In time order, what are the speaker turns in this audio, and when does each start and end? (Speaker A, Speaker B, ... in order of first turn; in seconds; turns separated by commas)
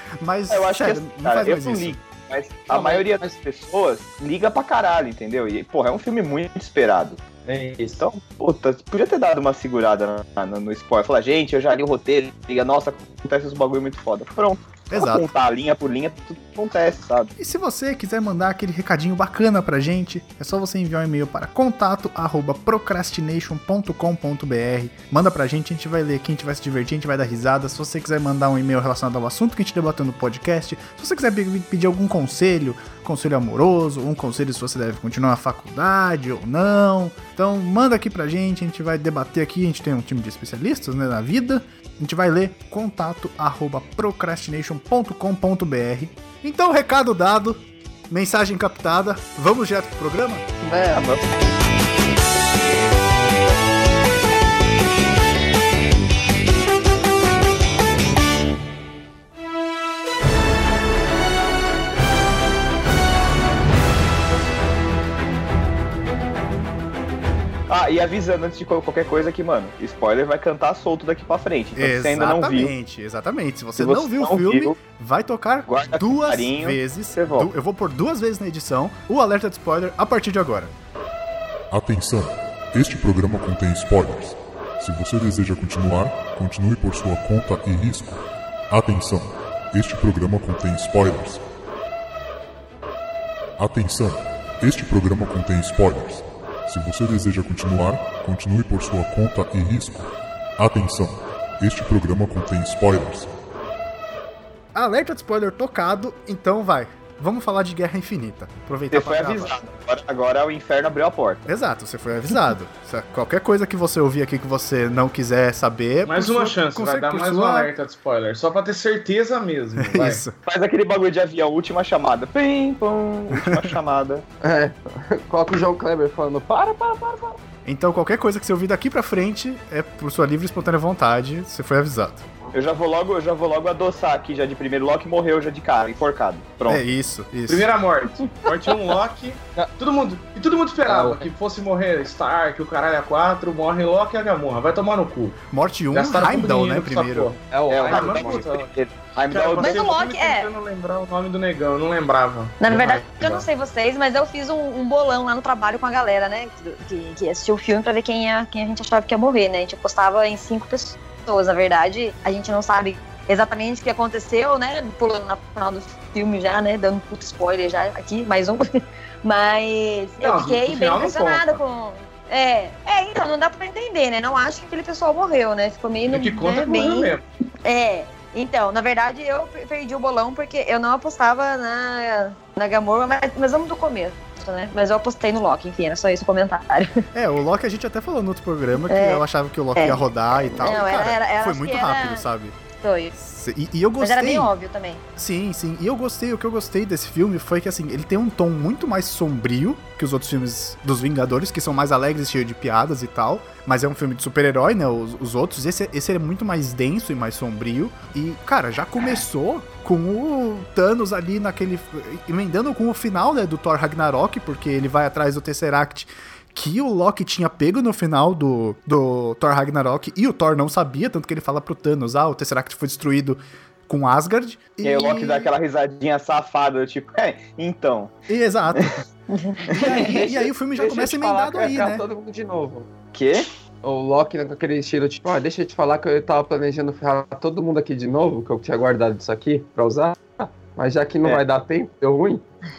Speaker A: 0.2-2.0, Speaker B: 0.5-7.2, Speaker C: 2.7-3.4, Speaker C: 7.5-8.1, Speaker B: 8.0-17.3, Speaker A: 14.9-15.3, Speaker A: 17.4-50.5, Speaker D: 50.6-51.1, Speaker B: 50.9-51.2, Speaker B: 67.7-72.7, Speaker A: 71.8-80.7, Speaker B: 73.8-74.8, Speaker B: 75.7-77.5, Speaker E: 81.7-91.4, Speaker E: 93.6-103.3, Speaker A: 104.7-109.6, Speaker B: 108.9-111.5, Speaker A: 111.5-117.7, Speaker F: 116.1-120.2, Speaker A: 119.8-120.4, Speaker B: 120.5-124.2, Speaker A: 123.3-123.7, Speaker C: 124.4-127.4, Speaker A: 127.7-132.2, Speaker B: 132.5-136.9, Speaker A: 136.7-137.7, Speaker F: 137.5-145.4, Speaker C: 138.2-138.6, Speaker C: 140.9-141.3, Speaker A: 145.5-147.3, Speaker F: 145.9-148.7, Speaker C: 147.5-148.7, Speaker B: 147.7-149.8, Speaker F: 149.3-153.5, Speaker D: 149.6-150.5, Speaker D: 152.6-168.6, Speaker D: 169.2-177.1, Speaker F: 170.2-171.6, Speaker F: 176.1-177.2, Speaker D: 177.7-187.0, Speaker A: 187.1-192.6, Speaker D: 188.9-189.2, Speaker D: 189.8-192.3, Speaker D: 192.8-193.1, Speaker A: 193.2-194.5, Speaker D: 194.0-195.0, Speaker A: 195.2-225.5, Speaker B: 224.8-228.1, Speaker A: 228.3-229.0, Speaker D: 229.3-229.9, Speaker B: 229.7-230.1, Speaker A: 229.8-232.0, Speaker C: 229.9-232.9, Speaker B: 233.1-233.5, Speaker C: 233.8-242.4